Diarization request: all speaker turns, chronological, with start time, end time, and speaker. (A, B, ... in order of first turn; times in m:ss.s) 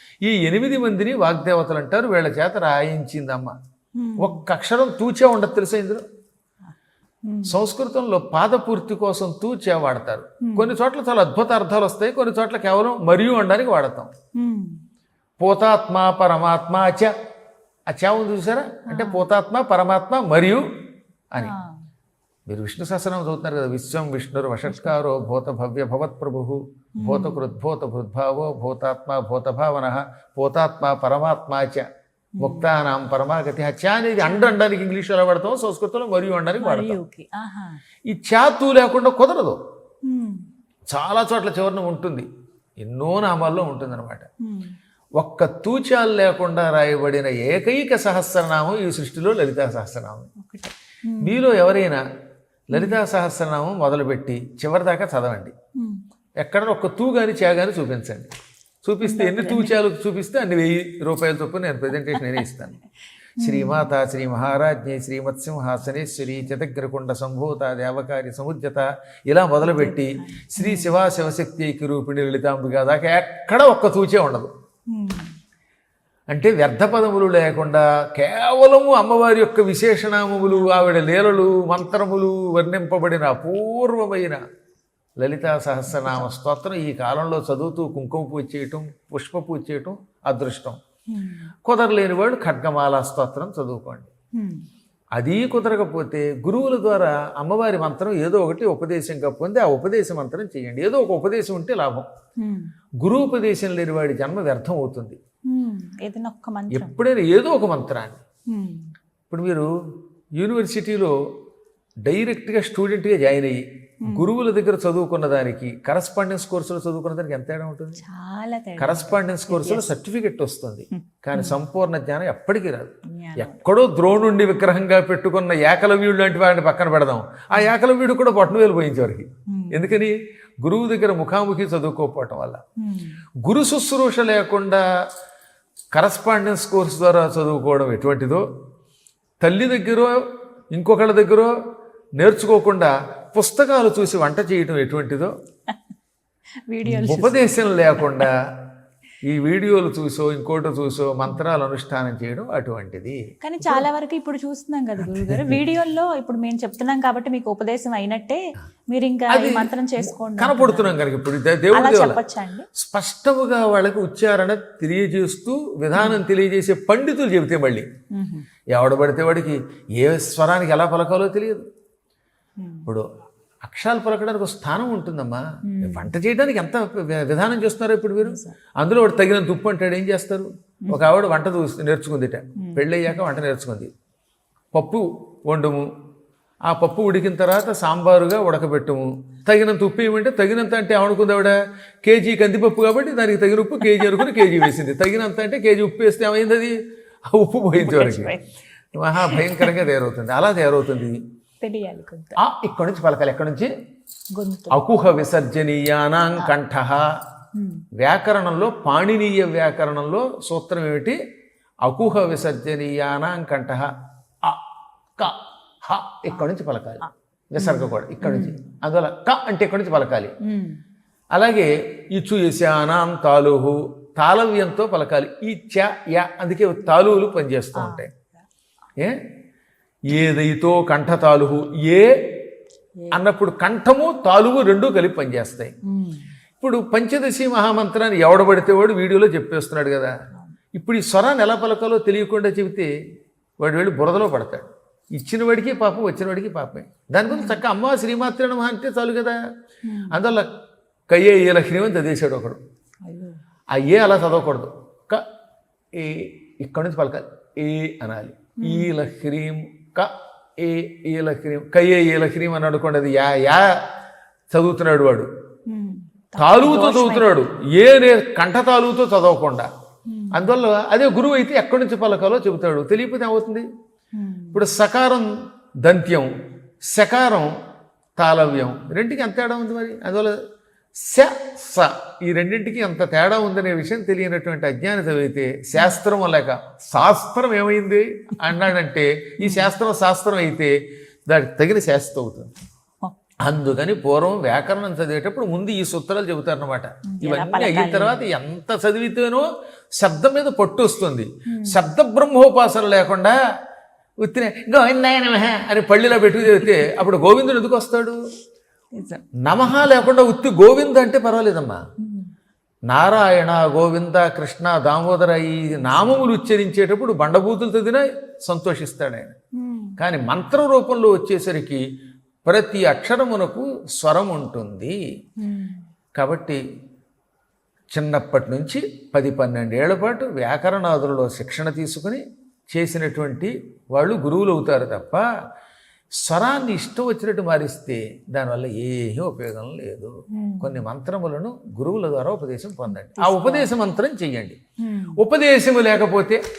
0:00.2-0:03.6 A
0:04.0-0:04.4 B
0:04.2-0:06.0 A
0:07.2-0:07.6 B
0:07.4-0:14.1 A
0:10.4-0:10.7 B
0:14.3-0:14.8 B
0:15.4-0:17.1 A
0:17.9-0:20.6 A
0:18.9-0:19.2 B
0:21.4-0:21.8 B
0:22.5-0:31.8 A
0:24.7-0:25.0 B
0:27.0-0:27.4 B
0:32.4-0:32.7 B
0:32.4-0:37.0 A
0:34.2-0:34.6 B
0:36.6-0:37.8 B
0:38.1-0:39.6 A
0:40.0-0:40.5 B
0:40.9-0:42.3 A
0:42.8-0:44.3 A
0:44.4-0:44.7 B
0:45.2-0:50.3 A
0:50.4-0:51.4 B
0:51.2-0:52.0 A
0:52.7-0:55.5 A
0:52.7-0:53.0 B
0:55.8-0:56.0 B
0:56.4-0:58.3 A
0:58.8-1:02.8 A
0:59.0-0:59.8 B
1:03.4-1:03.9 B
1:03.4-1:14.5 A
1:09.6-1:11.0 B
1:14.9-1:15.3 B
1:16.3-1:24.4 A
1:20.4-1:20.9 B
1:25.2-1:30.8 A
1:25.9-1:26.3 B
1:31.1-1:31.5 B
1:31.6-1:34.1 A
1:34.3-1:34.7 B
1:35.2-1:42.1 A
1:42.4-1:42.7 B
1:43.0-1:45.2 A
1:45.5-1:47.0 B
1:46.7-1:48.2 A
1:48.5-1:48.9 B
1:49.3-1:49.7 A
1:50.4-1:51.2 A
1:52.0-1:58.0 A
1:54.0-1:54.3 B
1:58.0-1:59.9 B
1:58.8-2:12.6 A
2:00.9-2:01.6 B
2:03.0-2:03.6 B
2:09.5-2:09.9 B
2:12.8-2:13.2 B
2:13.4-2:14.8 A
2:15.9-2:18.4 A
2:19.4-2:20.2 A
2:20.7-2:21.5 A
2:22.2-2:25.3 A
2:26.7-2:28.3 B
2:26.8-2:28.5 A
2:29.2-2:33.9 A
2:33.4-2:41.0 B
2:35.0-2:35.6 A
2:39.3-2:42.2 A
2:41.7-2:42.7 B
2:42.8-2:47.9 A
2:45.9-2:46.2 B
2:48.1-2:48.5 B
2:48.7-2:51.6 A
2:52.6-2:52.9 B
2:53.6-3:03.9 A
2:55.6-2:56.1 B
2:58.2-2:58.6 B
3:02.6-3:02.9 B
3:04.7-3:05.9 A
3:06.6-3:16.8 A
3:13.9-3:14.7 B
3:17.3-3:18.3 A
3:17.8-3:18.5 B
3:18.9-3:21.2 A
3:19.1-3:19.8 B
3:21.6-3:22.4 B
3:22.4-3:23.7 A
3:24.3-3:24.8 B
3:24.7-3:27.1 A
3:27.5-3:27.8 B
3:28.0-3:31.2 A
3:31.8-3:33.9 A
3:35.2-3:40.3 A
3:37.0-3:38.6 B
3:40.4-3:40.8 B
3:41.3-3:48.1 A
3:47.8-3:48.0 B
3:50.1-3:52.3 A
3:53.1-3:55.7 A
3:55.8-3:56.3 B
3:56.6-4:00.1 A
4:00.7-4:02.9 A
4:03.6-4:09.4 A
4:07.3-4:07.6 B
4:09.8-4:10.2 B
4:10.1-4:10.5 A
4:11.1-4:12.6 A
4:13.0-4:13.4 B
4:13.7-4:15.2 A
4:15.9-4:23.7 A
4:18.6-4:18.9 B
4:24.5-4:25.3 A
4:25.7-4:27.5 B
4:26.4-4:29.7 A
4:30.1-4:30.4 B
4:30.3-4:33.7 A
4:34.1-4:34.6 B
4:34.5-4:35.3 A
4:35.8-4:36.3 A
4:36.9-4:37.5 A
4:38.2-4:40.4 A
4:41.0-4:50.7 A
4:49.4-4:49.7 B
4:51.3-4:52.5 A
4:53.4-4:59.4 A
4:57.1-4:58.2 B
5:00.0-5:03.4 A
5:01.5-5:01.8 B
5:04.2-5:08.2 A
5:08.9-5:09.2 B
5:09.4-5:11.8 A
5:12.0-5:12.3 B
5:12.9-5:19.4 A
5:15.7-5:16.2 B
5:19.6-5:20.0 B
5:20.0-5:21.8 A
5:22.4-5:25.0 A
5:25.4-5:25.8 B
5:26.2-5:26.6 A
5:27.9-5:35.2 A
5:36.2-5:44.6 A
5:40.3-5:40.8 B
5:43.1-5:43.7 B
5:44.8-5:45.2 B
5:45.2-5:46.4 A